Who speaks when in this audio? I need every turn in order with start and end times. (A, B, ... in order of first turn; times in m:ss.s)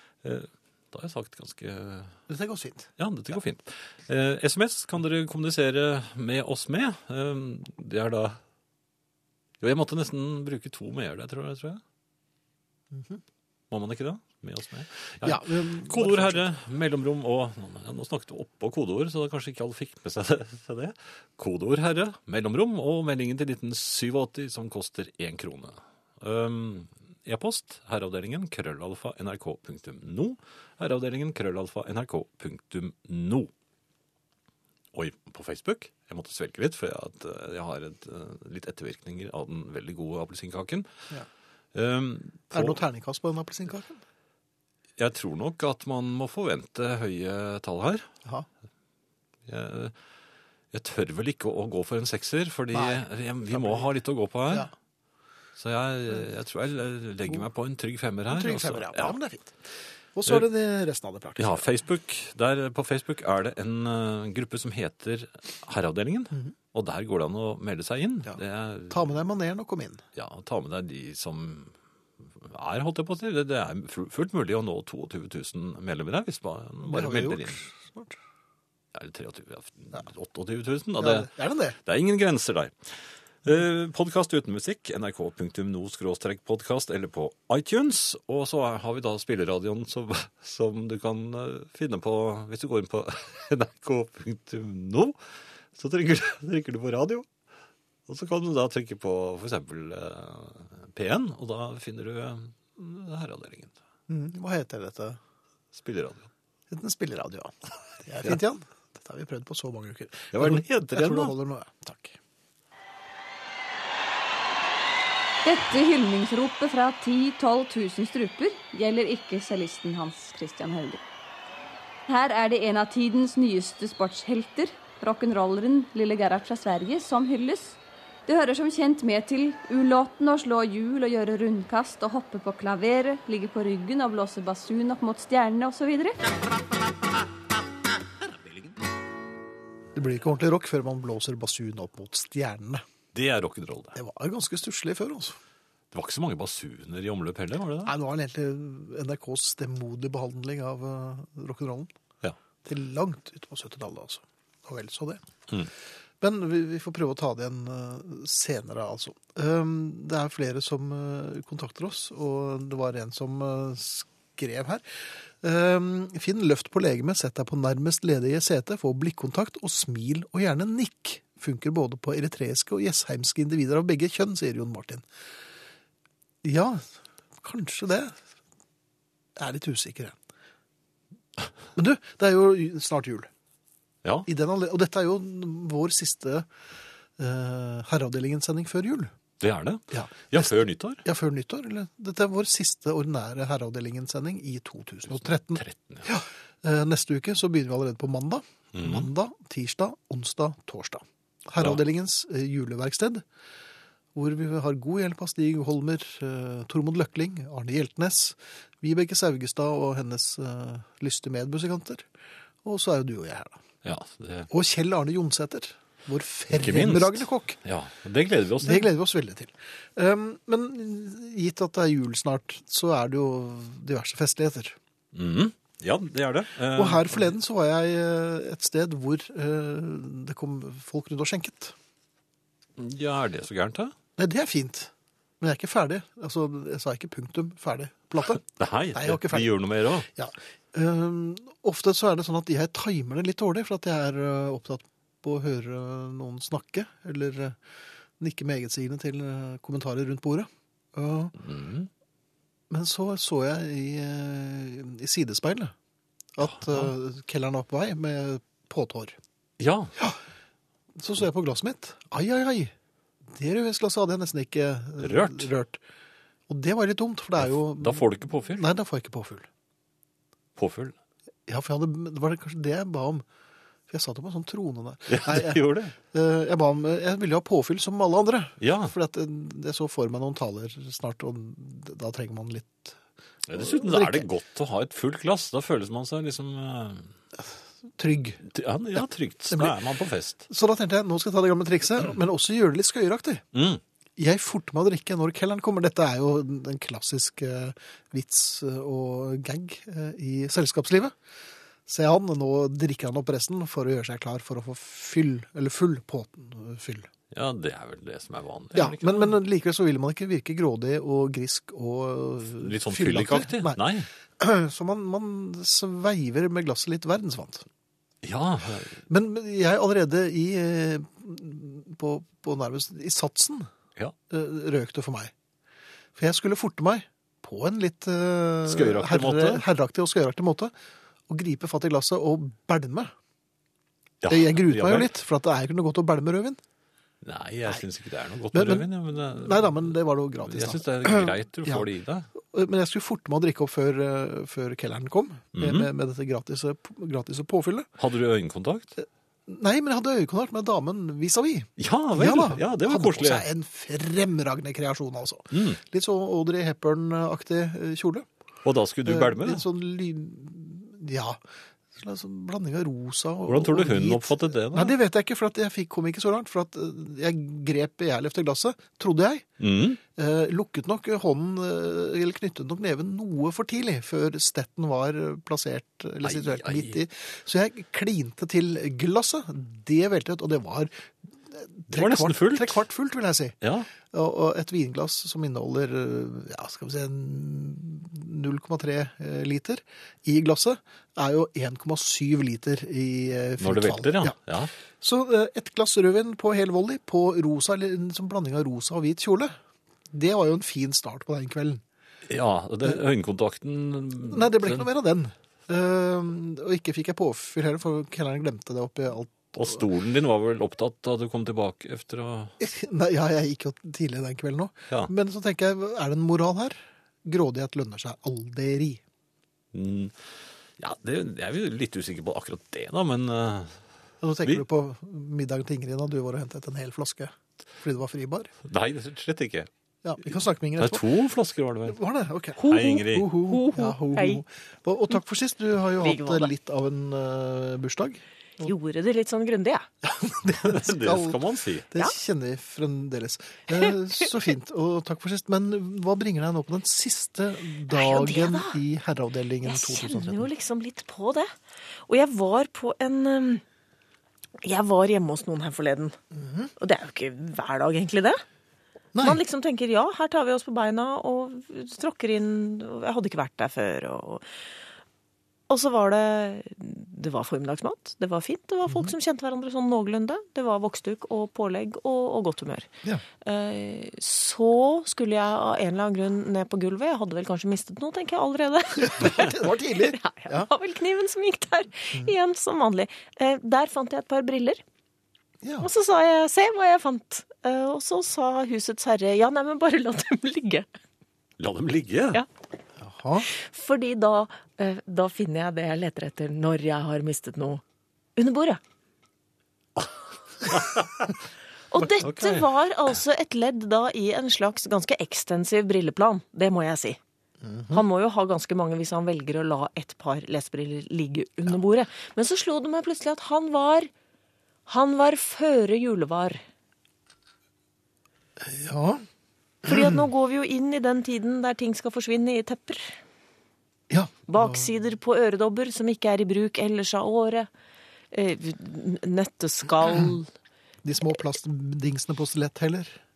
0:00.2-0:02.1 A
0:02.3-0:02.9 B
0:03.0-0:08.4 A
0:09.6-0:11.8 A
0:12.9-0:13.2 B
0:13.7-0:33.5 A
0:15.2-0:16.5 B
0:34.9-0:40.9 A
0:41.7-0:42.8 A
0:42.5-0:44.0 B
0:45.0-0:48.1 A
0:49.5-0:49.9 A
0:50.7-0:54.7 A
0:52.7-0:53.9 B
0:55.6-0:59.2 A
0:58.3-0:59.6 B
1:00.2-1:01.6 B
1:01.4-1:09.0 A
1:08.9-1:10.0 B
1:10.2-1:11.7 A
1:12.4-1:17.6 A
1:16.9-1:18.2 B
1:18.9-1:21.3 A
1:21.0-1:21.8 B
1:21.8-1:22.7 A
1:23.4-1:35.2 A
1:35.8-1:37.3 A
1:38.1-1:43.8 A
1:44.1-1:45.2 B
1:45.7-1:46.3 A
1:46.7-1:52.2 B
1:50.3-1:51.4 A
1:55.4-2:01.0 C
2:02.1-2:16.2 C
2:20.0-2:22.8 B
2:23.1-2:24.0 A
2:23.9-2:25.4 B
2:25.9-2:27.9 A
2:27.8-2:31.9 B
2:32.6-2:35.2 B
2:36.2-2:55.0 B
2:56.4-2:58.2 B
2:59.4-3:00.2 B
3:01.8-3:03.3 B
3:04.3-3:06.5 B
3:07.2-3:09.1 B
3:09.4-3:11.0 A
3:09.9-3:23.2 B
3:15.1-3:16.1 A
3:18.8-3:19.1 A
3:24.2-3:32.1 B
3:32.6-3:33.6 B
3:33.8-3:34.5 A
3:34.5-3:37.6 B
3:36.5-3:38.9 A
3:38.6-3:44.8 B
3:45.1-3:47.3 A
3:46.8-3:51.8 B
3:52.8-3:53.9 A
3:54.2-3:59.5 B
3:58.6-4:00.1 A
4:00.1-4:07.6 B
4:08.2-4:11.4 B
4:11.4-4:11.9 A
4:12.7-4:15.7 B
4:16.4-4:19.2 B
4:16.4-4:16.9 A
4:19.6-4:19.9 A
4:21.0-4:22.7 B
4:23.3-4:25.8 B
4:25.0-4:25.5 A
4:26.5-4:29.5 B
4:27.4-4:28.6 A
4:30.6-4:31.0 A
4:31.5-4:33.2 B
4:33.9-4:43.0 B
4:35.1-4:36.0 A
4:38.6-4:38.9 A
4:43.5-4:47.1 A
4:43.6-4:44.3 B
4:48.0-4:48.4 B
4:48.5-4:50.4 A
4:50.5-4:53.4 B
4:53.5-4:53.8 A
4:54.2-5:01.2 B
5:01.9-5:07.1 B
5:07.3-5:09.4 A
5:08.7-5:13.8 B
5:12.6-5:14.1 A
5:14.4-5:17.7 B
5:18.2-5:19.0 A
5:19.1-5:23.7 B
5:24.3-5:25.3 B
5:26.2-5:30.7 B
5:28.7-5:29.6 A
5:31.3-5:33.1 B
5:34.2-5:35.1 A
5:34.3-5:36.6 B
5:37.2-5:42.3 A
5:38.5-5:47.9 B
5:45.6-5:45.9 A
5:48.0-5:48.9 A
5:49.0-5:58.3 B
5:51.8-5:53.5 A
5:55.5-5:55.8 A
5:58.6-5:59.6 A
5:59.0-6:01.4 B
6:01.9-6:09.5 B
6:03.5-6:04.9 A
6:09.6-6:10.0 A
6:10.1-6:34.4 B
6:16.2-6:17.0 A
6:21.9-6:22.8 A
6:23.6-6:23.9 A
6:33.6-6:34.7 A
6:35.0-6:39.6 B
6:40.1-6:41.8 B
6:42.3-6:44.9 A
6:44.3-6:49.8 B
6:49.6-6:52.5 A
6:52.6-6:59.0 B
6:59.7-7:00.2 A
7:00.8-7:03.8 A
7:04.2-7:08.5 B
7:08.6-7:09.7 A
7:10.0-7:11.0 B
7:10.2-7:12.0 A
7:11.9-7:18.7 B
7:12.6-7:14.4 D
7:12.6-7:13.3 A
7:16.0-7:16.5 D
7:18.6-7:19.9 D
7:20.0-7:30.5 B
7:20.6-7:21.9 A
7:27.9-7:28.8 D
7:29.6-7:31.5 D
7:32.1-7:33.6 D
7:34.6-7:36.2 D
7:36.3-7:36.7 B
7:36.8-7:38.4 D
7:39.1-7:39.4 B
7:39.2-7:44.5 D
7:45.7-8:04.8 D
7:59.0-8:00.7 B
8:05.6-8:05.9 B
8:05.8-8:10.9 D
8:11.6-8:12.4 A
8:13.0-8:13.5 B
8:13.4-8:17.8 D
8:18.4-8:18.8 D
8:20.6-8:21.4 A
8:21.9-8:27.2 D
8:22.2-8:22.7 A
8:27.6-8:28.0 B
8:27.9-8:34.1 D
8:34.9-8:36.6 D
8:38.6-8:39.2 B
8:39.8-8:43.2 D
8:39.9-8:40.2 B
8:44.1-8:44.9 B
8:44.5-8:47.7 D
8:48.3-8:50.5 D
8:51.0-8:53.2 B